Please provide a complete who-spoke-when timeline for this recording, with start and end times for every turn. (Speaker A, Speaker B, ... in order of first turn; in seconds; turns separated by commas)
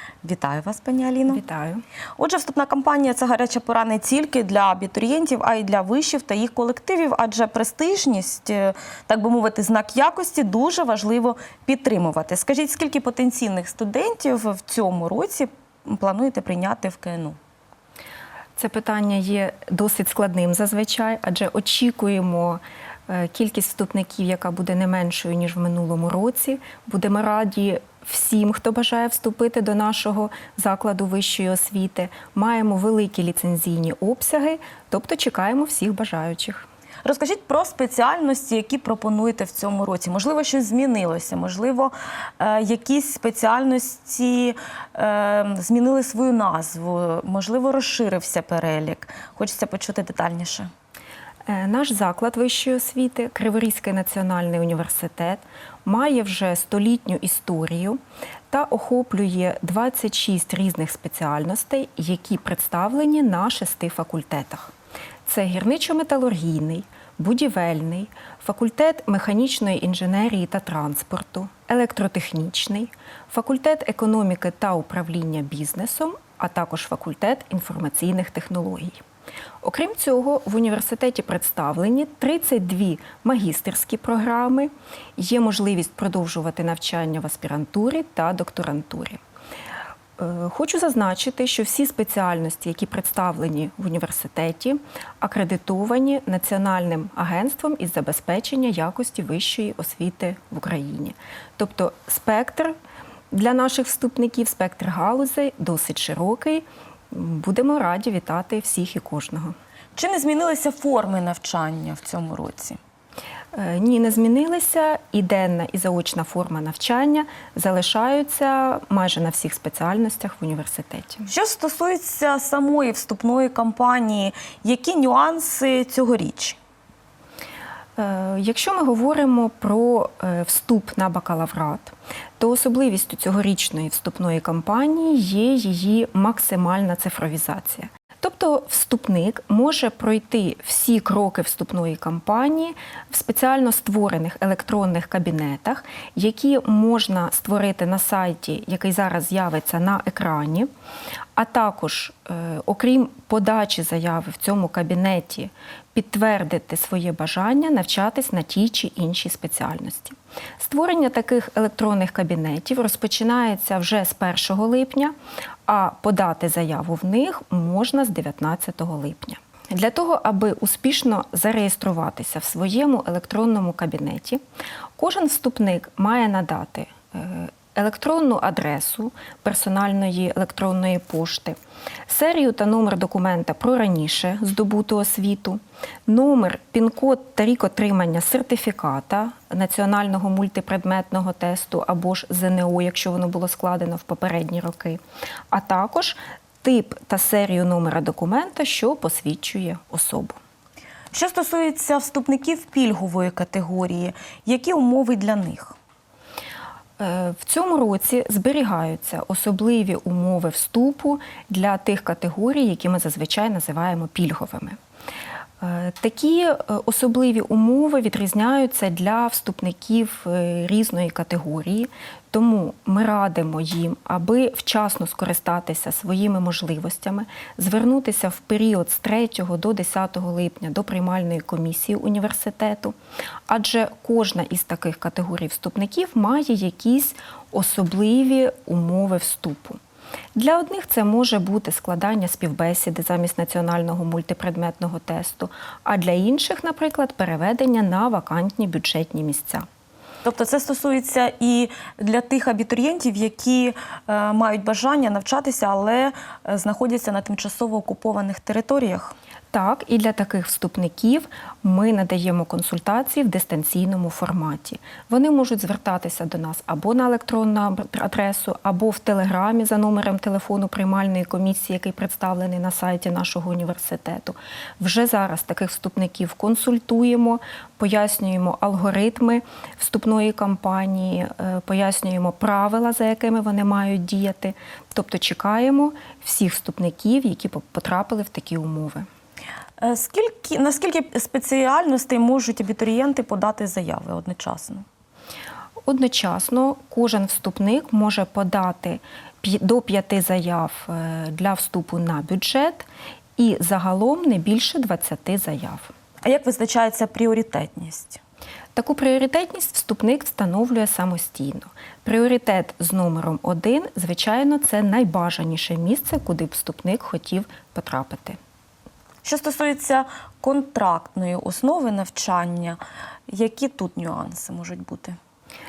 Speaker A: 0.2-1.4, Speaker B: 1.3-1.8, Speaker A: 2.2-17.4, Speaker B: 18.6-36.7, Speaker A: 37.0-50.7, Speaker B: 51.5-58.0, Speaker B: 58.5-64.7, Speaker B: 65.3-79.0, Speaker B: 79.6-89.2, Speaker B: 90.2-102.7, Speaker B: 103.3-109.5, Speaker A: 110.0-112.8, Speaker B: 113.5-121.3, Speaker A: 121.3-126.6, Speaker B: 128.0-150.7, Speaker B: 151.4-165.1, Speaker B: 165.7-174.4, Speaker B: 175.0-195.0, Speaker B: 195.5-200.4, Speaker A: 201.1-205.8, Speaker B: 207.0-214.8, Speaker B: 215.6-232.9, Speaker B: 233.5-239.8, Speaker B: 240.3-249.7, Speaker A: 250.2-259.1, Speaker B: 259.5-289.1, Speaker A: 289.8-294.9, Speaker B: 295.9-305.9, Speaker A: 306.2-308.2, Speaker B: 308.8-318.4, Speaker A: 319.2-325.2